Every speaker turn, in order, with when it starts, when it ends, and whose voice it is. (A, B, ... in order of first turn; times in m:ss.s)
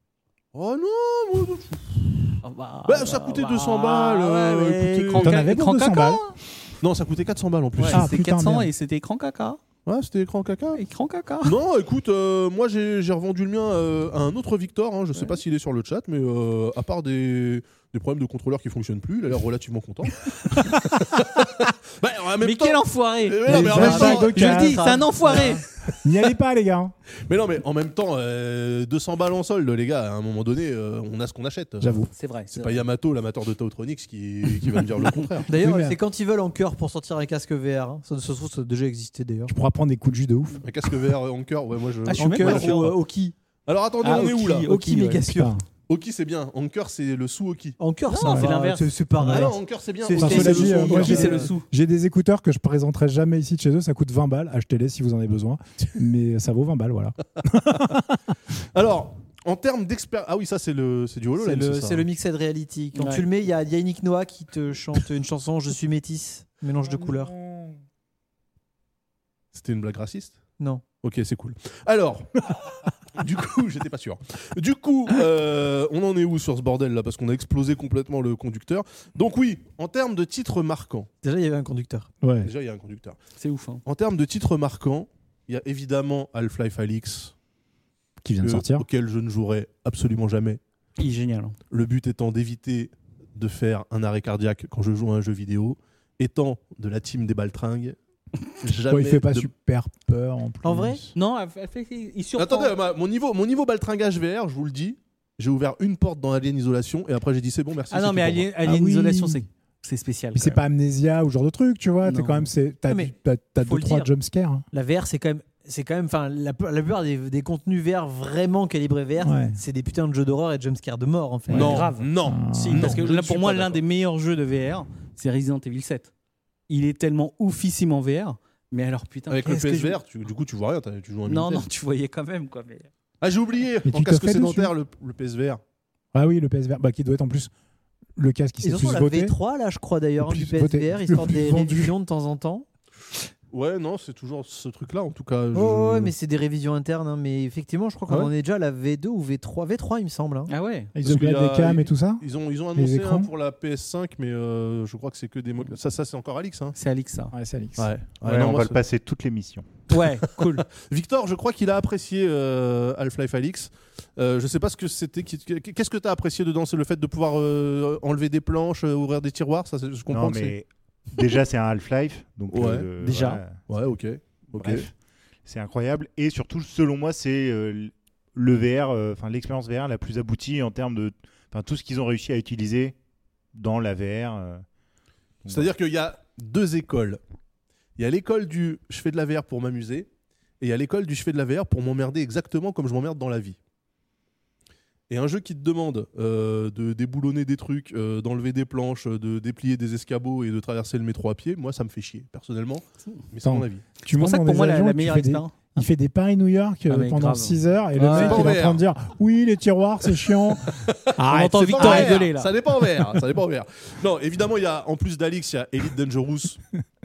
0:00.5-0:05.5 A
0:02.4-0:06.4 B
0:05.2-0:06.2 C
0:06.8-0:08.1 A
0:07.8-0:09.6 B
0:07.9-0:08.7 C
0:09.9-0:10.8 A
0:10.7-0:11.6 B
0:11.4-0:24.6 A
0:22.4-0:25.6 B
0:23.4-0:25.0 C
0:23.7-0:25.6 D
0:26.0-0:26.9 C
0:27.3-0:35.5 A
0:31.8-0:32.1 C
0:32.2-0:32.8 B
0:35.5-0:39.5 D
0:35.5-0:36.0 C
0:39.5-0:40.6 C
0:40.6-0:43.0 A
0:42.1-0:42.9 B
0:42.2-0:43.3 D
0:43.7-0:44.7 A
0:44.0-0:45.3 B
0:44.1-0:45.6 D
0:45.3-0:45.6 C
0:45.9-0:47.8 A
0:47.8-0:51.5 D
0:48.1-0:48.9 B
0:49.2-0:49.5 C
0:49.2-0:51.4 A
0:50.2-0:58.2 C
0:50.3-0:51.7 B
0:58.7-1:02.1 A
1:01.4-1:07.3 D
1:02.9-1:03.2 B
1:06.9-1:07.8 C
1:09.5-1:10.4 A
1:11.0-1:21.1 A
1:21.2-1:22.1 D
1:22.2-1:22.5 C
1:22.4-1:23.2 A
1:23.4-1:23.8 B
1:23.8-1:27.3 A
1:28.2-1:28.8 C
1:28.4-1:30.6 A
1:31.0-1:31.6 B
1:31.7-1:38.0 A
1:38.6-1:39.5 A
1:38.9-1:41.1 C
1:40.6-1:41.0 D
1:41.2-1:42.7 B
1:42.4-1:48.5 A
1:47.9-1:50.6 B
1:48.6-1:49.4 C
1:50.4-1:54.7 C
1:52.0-1:52.5 B
1:52.9-1:54.1 D
1:54.7-2:01.9 D
1:59.2-1:59.6 C
2:01.5-2:06.1 B
2:01.5-2:03.8 A
2:02.2-2:03.0 C
2:06.7-2:10.0 B
2:09.3-2:11.7 A
2:11.3-2:12.9 B
2:13.2-2:15.6 A
2:13.8-2:14.7 C
2:16.1-2:17.5 C
2:18.2-2:19.4 C
2:18.6-2:22.7 D
2:20.2-2:21.9 C
2:23.5-2:26.1 A
2:25.5-2:30.5 D
2:28.1-2:28.3 A
2:30.5-2:30.9 B
2:31.0-2:33.3 C
2:31.0-2:36.8 A
2:36.8-2:37.3 B
2:37.3-2:37.9 C
2:37.8-2:38.8 A
2:38.2-2:39.7 E
2:39.9-2:40.7 B
2:40.6-2:50.6 A
2:50.1-2:53.6 E
2:52.5-2:52.9 A
2:53.0-2:53.4 B
2:53.7-2:54.9 A
2:54.6-2:54.9 E
2:55.4-3:03.0 E
3:03.5-3:04.6 E
3:05.4-3:05.7 E
3:05.5-3:07.2 A
3:08.0-3:10.1 A
3:10.6-3:13.6 A
3:15.1-3:23.8 A
3:23.4-3:32.2 C
3:24.1-3:25.6 B
3:26.9-3:28.5 B
3:28.1-3:28.8 A
3:30.7-3:31.1 A
3:31.3-3:32.5 B
3:31.7-3:36.6 A